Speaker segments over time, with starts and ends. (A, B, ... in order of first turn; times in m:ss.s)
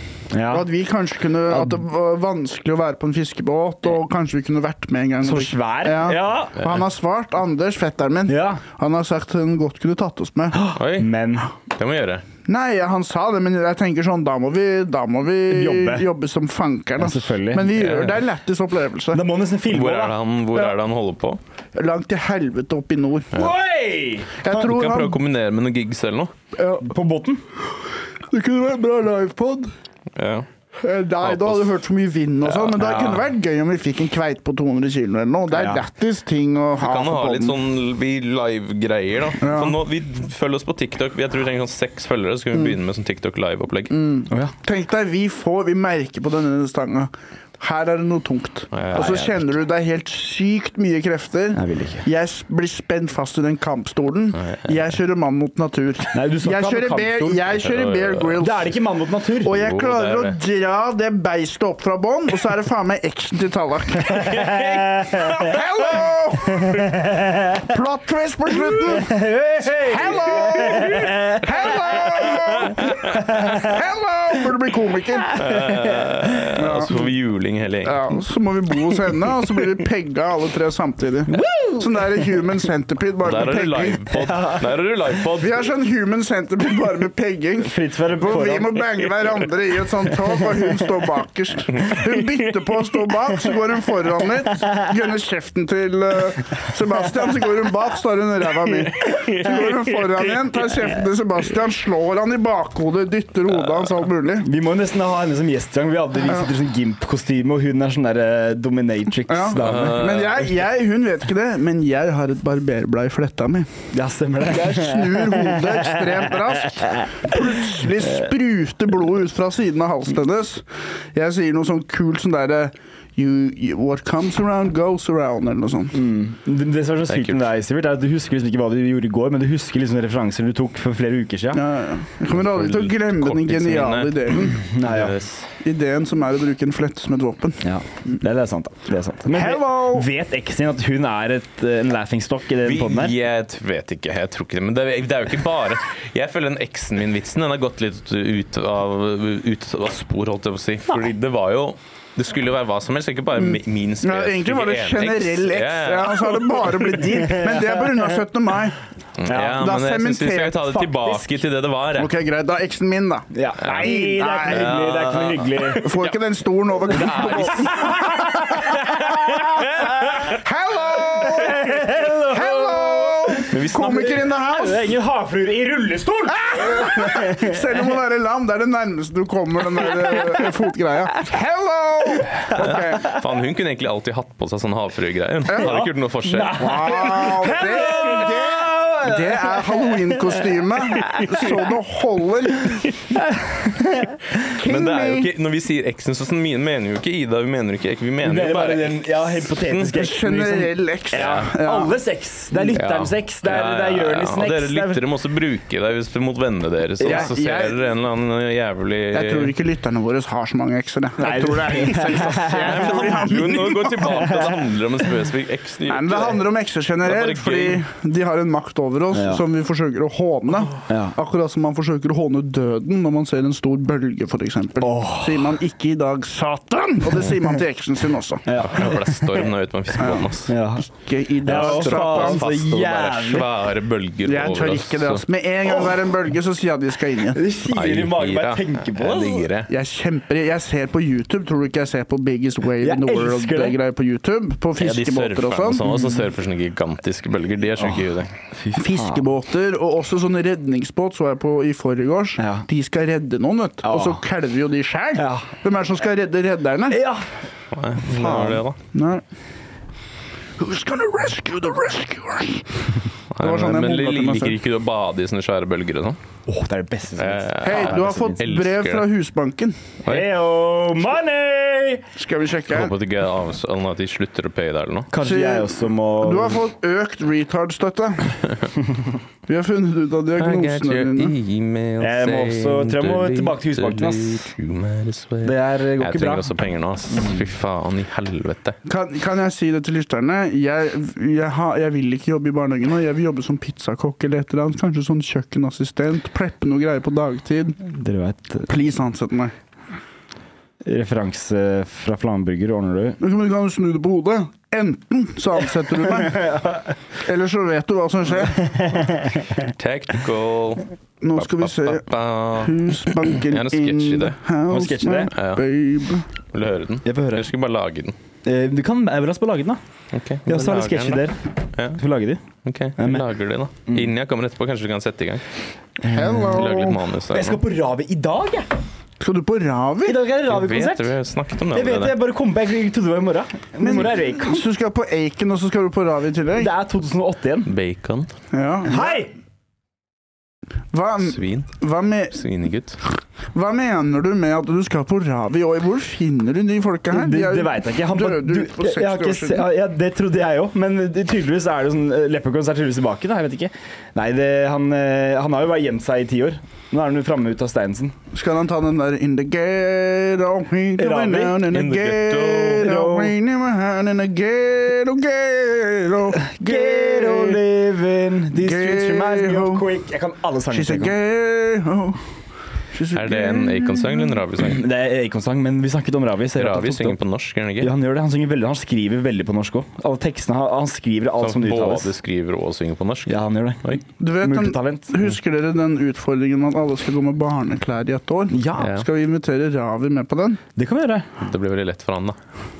0:00.3-0:00.7 A
0:00.4-0:10.6 B
0:05.2-0:06.6 A
0:08.3-0:08.6 A
0:10.5-0:11.5 A
0:10.8-0:11.1 C
0:11.7-0:12.2 C
0:12.5-0:19.2 B
0:15.5-0:16.1 A
0:17.0-0:17.7 A
0:17.7-0:18.2 C
0:19.1-0:20.2 A
0:19.7-0:21.4 C
0:21.8-0:23.3 B
0:23.3-0:24.4 A
0:24.4-0:26.3 C
0:24.4-0:25.2 B
0:26.6-0:26.9 B
0:26.8-0:27.4 A
0:28.3-0:29.7 B
0:30.2-0:30.5 C
0:30.8-0:37.6 B
0:31.2-0:31.7 C
0:32.5-0:33.1 C
0:35.5-0:35.8 A
0:36.8-0:44.0 C
0:39.4-0:39.8 B
0:43.9-0:58.7 B
0:48.7-0:49.2 C
0:48.9-0:49.5 A
0:51.6-0:52.1 A
0:56.1-0:57.5 A
0:57.6-0:58.4 C
0:58.4-0:59.5 A
0:59.4-1:04.5 B
0:59.5-1:00.4 C
1:04.2-1:05.5 A
1:05.3-1:06.9 B
1:06.6-1:07.6 A
1:07.7-1:09.2 B
1:08.8-1:12.1 A
1:09.8-1:15.4 B
1:12.8-1:13.7 A
1:15.4-1:18.0 C
1:15.6-1:16.3 A
1:16.6-1:17.0 B
1:17.8-1:24.0 B
1:21.3-1:21.9 A
1:23.2-1:25.6 C
1:24.2-1:24.6 A
1:25.4-1:44.5 B
1:27.6-1:28.9 A
1:44.4-1:50.2 A
1:49.3-1:53.7 B
1:49.6-1:50.5 C
1:53.9-1:57.3 A
1:54.4-2:06.0 B
2:05.9-2:11.6 A
2:07.1-2:07.4 C
2:11.5-2:14.6 B
2:12.4-2:15.5 C
2:14.7-2:15.1 A
2:15.6-2:17.6 B
2:17.6-2:23.2 A
2:19.3-2:20.1 B
2:22.6-2:36.8 C
2:33.4-2:38.8 B
2:37.2-2:38.0 A
2:39.2-2:42.1 C
2:39.3-2:39.6 A
2:39.4-2:41.2 B
2:42.0-2:44.8 B
2:43.3-2:46.0 A
2:43.6-2:46.0 C
2:45.7-2:49.4 B
2:46.8-2:50.2 A
2:46.9-2:47.8 C
2:49.2-2:49.9 C
2:50.1-2:54.9 B
2:51.0-2:57.7 A
2:53.5-2:54.3 C
2:56.3-3:03.2 B
2:59.9-3:00.4 A
3:02.4-3:03.2 A
3:02.6-3:06.9 C
3:05.5-3:05.8 B
3:05.6-3:11.7 A
3:06.5-3:12.9 B
3:13.2-3:14.4 A
3:14.5-3:15.3 B
3:14.6-3:20.0 C
3:18.2-3:25.0 A
3:19.9-3:21.9 B
3:21.1-3:21.5 C
3:22.7-3:29.5 C
3:27.0-3:27.3 A
3:27.0-3:27.8 B
3:29.1-3:34.3 B
3:31.2-3:33.4 A
3:32.6-3:36.5 C
3:34.0-3:34.6 A
3:35.9-3:48.5 B
3:37.0-3:37.8 C
3:39.1-3:39.4 A
3:40.9-3:41.2 A
3:44.8-3:45.5 A
3:48.5-3:49.5 A
3:48.6-3:50.5 C
3:50.0-3:50.3 B
3:50.5-3:50.9 A
3:50.9-3:52.4 B
3:51.4-3:53.5 A
3:51.5-3:55.2 C
3:54.2-3:57.4 B
3:57.3-3:59.5 A
3:57.7-3:59.7 C
3:59.7-4:05.8 B
4:02.8-4:03.8 A
4:04.8-4:08.3 C
4:05.9-4:06.1 A
4:08.6-4:09.2 A
4:08.7-4:17.0 B
4:12.4-4:12.7 A
4:13.8-4:14.2 A
4:15.2-4:15.5 A
4:16.9-4:17.3 A
4:17.7-4:18.8 C
4:18.1-4:19.2 B
4:20.6-4:24.6 B
4:23.3-4:26.2 C
4:26.5-4:28.4 A
4:27.2-4:29.1 C
4:27.6-4:29.8 B
4:30.0-4:32.1 A
4:32.2-4:32.9 B
4:32.7-4:35.1 C
4:35.1-4:36.6 A
4:35.2-4:38.4 B
4:39.5-4:41.3 B
4:40.4-4:48.8 C
4:42.0-4:44.5 A
4:45.4-4:46.5 A
4:47.1-4:47.4 A
4:48.8-4:57.8 B
4:57.8-4:58.7 A
4:58.7-4:59.5 B
5:00.8-5:03.2 A
5:03.2-5:06.6 B
5:06.1-5:06.9 A
5:07.2-5:08.7 B
5:08.5-5:09.7 A
5:09.6-5:14.4 C
5:11.2-5:16.3 B
5:14.7-5:15.3 A
5:15.3-5:15.6 C
5:16.5-5:18.2 C
5:17.0-5:17.5 A
5:18.4-5:19.8 A
5:20.1-5:22.0 C
5:20.5-5:21.4 A
5:21.9-5:22.4 A
5:22.6-5:25.4 C
5:23.0-5:23.3 A
5:23.9-5:24.1 A
5:26.0-5:26.8 A
5:26.0-5:27.0 B
5:26.4-5:27.6 C
5:27.3-5:28.7 A
5:29.2-5:30.2 B
5:30.0-5:31.1 A
5:30.4-5:32.1 C
5:31.7-5:34.6 A
5:33.8-5:36.7 B
5:36.6-5:37.7 A
5:37.7-5:38.3 C
5:38.5-5:39.2 B
5:38.9-5:39.3 A
5:40.9-5:42.4 B
5:41.3-5:41.7 C
5:42.3-5:43.0 C
5:43.5-5:49.7 B
5:47.1-5:58.2 A
5:58.3-6:07.6 B
6:01.0-6:01.6 A
6:01.7-6:02.9 C
6:02.8-6:03.3 A
6:06.4-6:11.1 A
6:08.5-6:09.9 B
6:10.7-6:12.2 B
6:12.9-6:14.4 B
6:13.1-6:14.8 C
6:14.6-6:17.2 A
6:16.6-6:17.9 C
6:17.8-6:22.1 A
6:21.4-6:24.0 C
6:23.3-6:25.1 A
6:24.2-6:30.6 B
6:28.5-6:29.0 A
6:28.8-6:29.1 C
6:30.8-6:31.3 A
6:31.4-6:32.4 C